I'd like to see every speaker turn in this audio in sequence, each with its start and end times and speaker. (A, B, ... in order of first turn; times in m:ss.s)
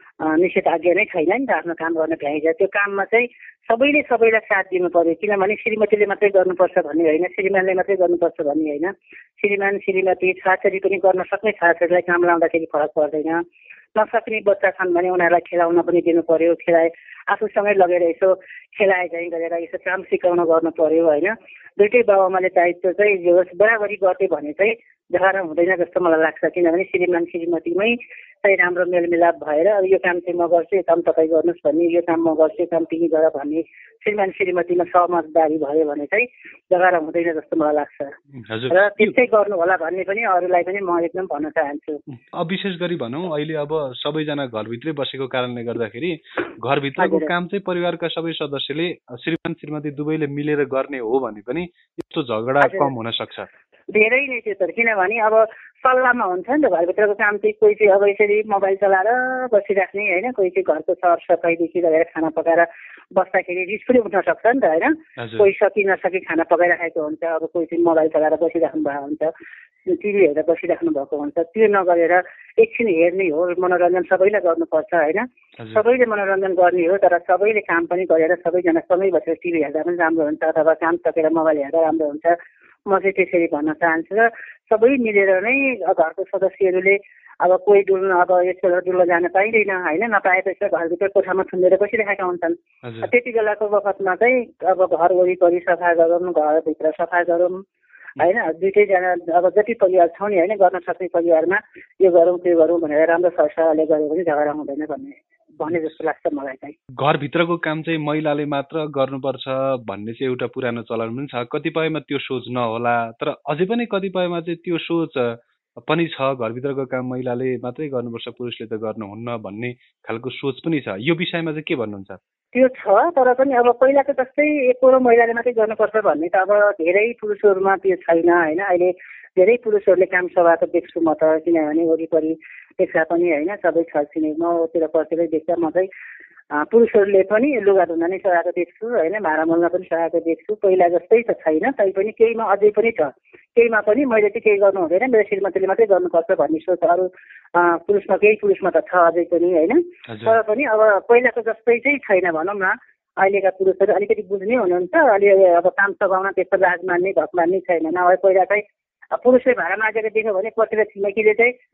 0:00.2-0:13.4 A
0:14.0-0:38.1 A
0:38.4-0:39.1 B
0:38.7-0:42.0 A
0:42.2-0:53.5 B
0:47.0-0:47.3 A
0:52.6-0:52.9 A
0:53.9-1:09.3 A
1:05.2-1:05.5 B
1:09.9-1:22.4 A
1:22.9-1:37.6 A
1:32.8-1:33.1 B
1:38.2-1:46.8 A
1:47.0-2:02.2 B
2:02.5-2:15.9 A
2:16.5-2:38.6 A
2:30.1-2:30.4 B
2:39.2-2:41.5 A